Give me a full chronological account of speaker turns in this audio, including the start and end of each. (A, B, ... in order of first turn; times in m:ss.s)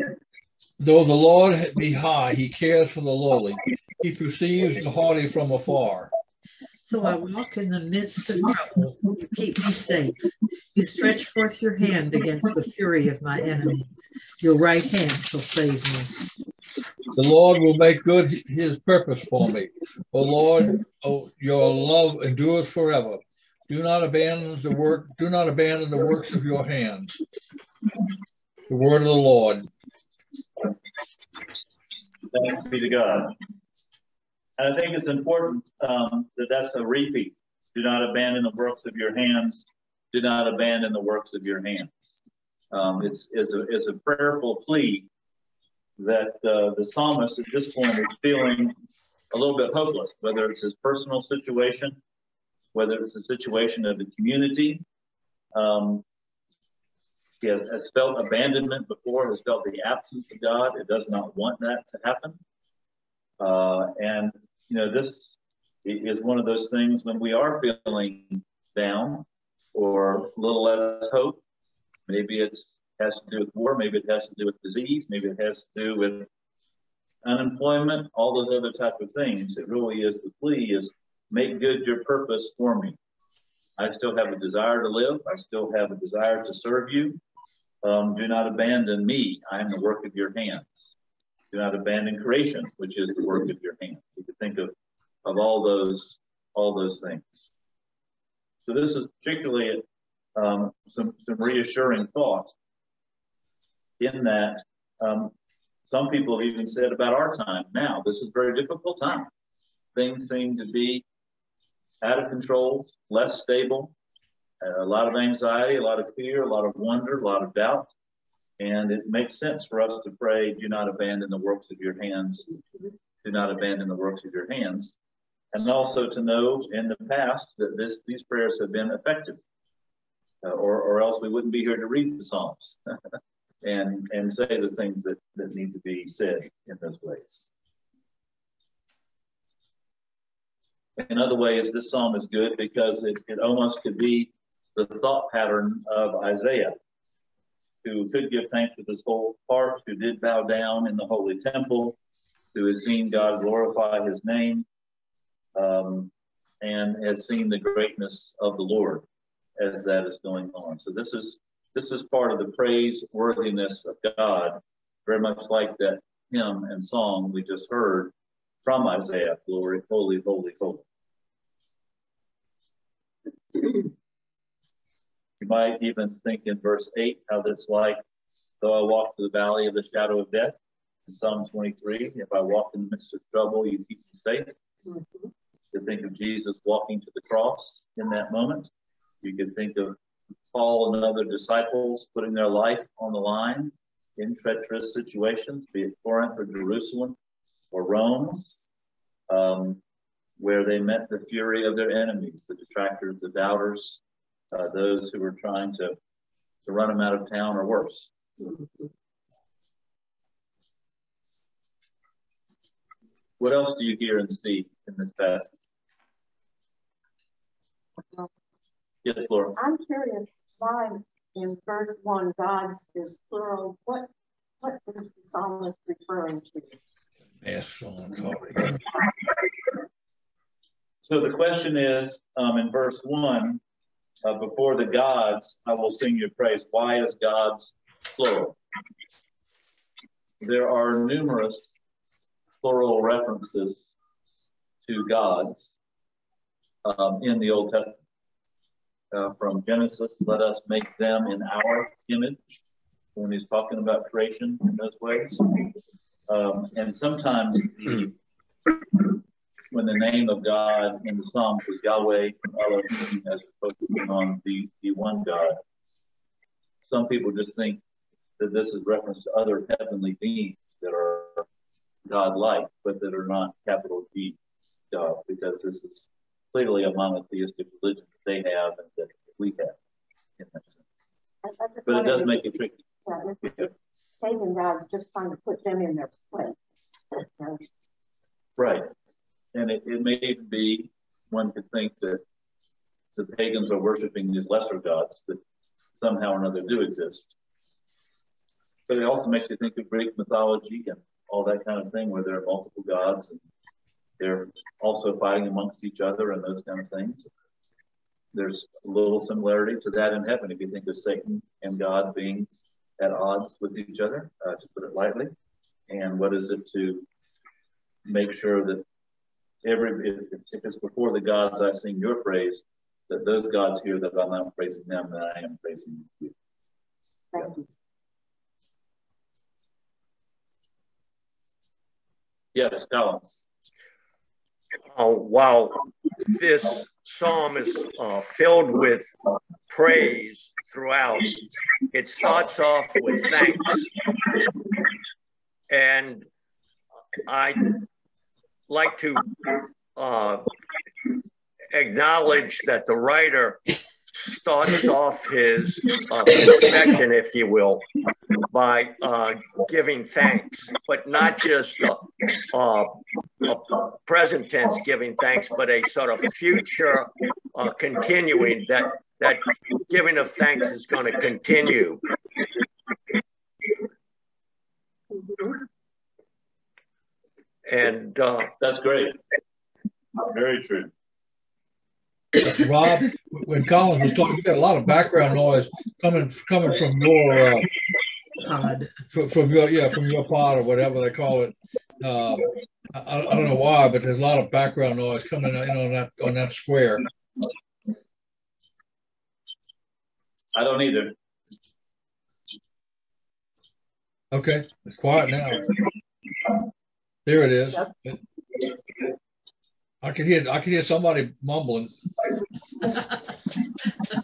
0:00.8-0:06.1 A
0:06.9-0:16.2 B
0:17.1-0:27.2 A
0:28.7-0:29.7 A
0:32.3-0:33.3 C
0:34.6-0:42.2 C
0:42.7-0:45.1 C
0:46.0-0:48.7 C
0:49.3-0:52.0 C
0:52.7-0:54.8 C
0:55.5-0:56.0 C
0:57.4-1:02.4 C
1:03.4-1:11.4 C
1:12.1-1:16.3 C
1:17.2-1:23.0 C
1:23.8-1:27.2 C
1:27.8-1:30.9 C
1:31.5-1:34.7 C
1:35.2-1:37.5 C
1:38.6-1:39.8 C
1:40.4-1:42.5 C
1:44.0-1:45.3 C
1:45.9-1:49.3 C
1:49.9-1:51.0 C
1:52.0-1:53.9 C
1:54.6-1:57.9 C
1:58.6-2:02.5 C
2:03.2-2:05.0 C
2:05.5-2:09.4 C
2:10.4-2:12.8 C
2:13.6-2:17.5 C
2:21.0-2:26.7 C
2:27.8-2:32.0 C
2:32.5-2:34.6 C
2:35.6-2:39.0 C
2:39.6-2:48.1 C
2:48.6-2:50.8 C
2:55.4-2:58.0 C
2:58.6-3:00.6 C
3:01.1-3:04.6 C
3:05.7-3:08.7 C
3:09.2-3:10.0 C
3:10.5-3:17.2 C
3:17.7-3:18.5 C
3:19.3-3:19.8 C
3:20.4-3:24.0 C
3:24.5-3:26.0 C
3:26.6-3:28.1 C
3:33.4-3:35.5 C
3:39.0-3:39.6 C
3:39.6-3:44.1 D
3:44.6-3:46.8 D
3:47.4-3:48.8 A
3:51.0-3:53.6 C
3:54.2-3:58.6 C
4:00.4-4:01.7 C
4:02.6-4:03.9 C
4:04.8-4:05.7 C
4:06.8-4:08.0 C
4:09.1-4:12.6 C
4:13.1-4:15.6 C
4:16.3-4:18.1 C
4:19.7-4:25.6 C
4:26.8-4:27.8 C
4:28.4-4:31.4 C
4:32.0-4:34.4 C
4:34.9-4:39.8 C
4:40.4-4:40.8 C
4:41.4-4:46.5 D
4:41.8-4:42.8 C
4:43.4-4:43.7 C
4:47.1-4:47.6 D
4:48.6-4:48.9 C
4:49.5-4:52.2 C
4:53.2-4:55.4 C
4:56.0-4:57.3 C
4:58.9-5:03.4 C
5:04.2-5:07.3 C
5:08.3-5:15.3 C
5:15.9-5:17.1 C
5:18.0-5:18.8 C
5:19.6-5:26.3 C
5:27.3-5:27.6 D
5:32.5-5:33.4 C
5:34.9-5:39.1 E
5:39.7-5:41.4 E
5:41.9-5:43.9 E
5:45.7-5:46.2 E
5:47.2-5:47.7 E
5:48.7-5:49.4 E
5:50.0-5:50.4 E
5:51.7-5:53.6 E
5:54.1-5:57.9 E
5:58.4-6:12.1 E
6:17.6-6:18.5 E
6:18.6-6:19.2 C
6:20.2-6:20.9 C
6:22.4-6:27.7 A
6:28.4-6:28.9 B
6:29.1-6:37.0 A
6:40.5-6:41.1 C
6:44.3-6:45.7 A
6:47.2-6:48.2 A
6:50.0-6:51.9 A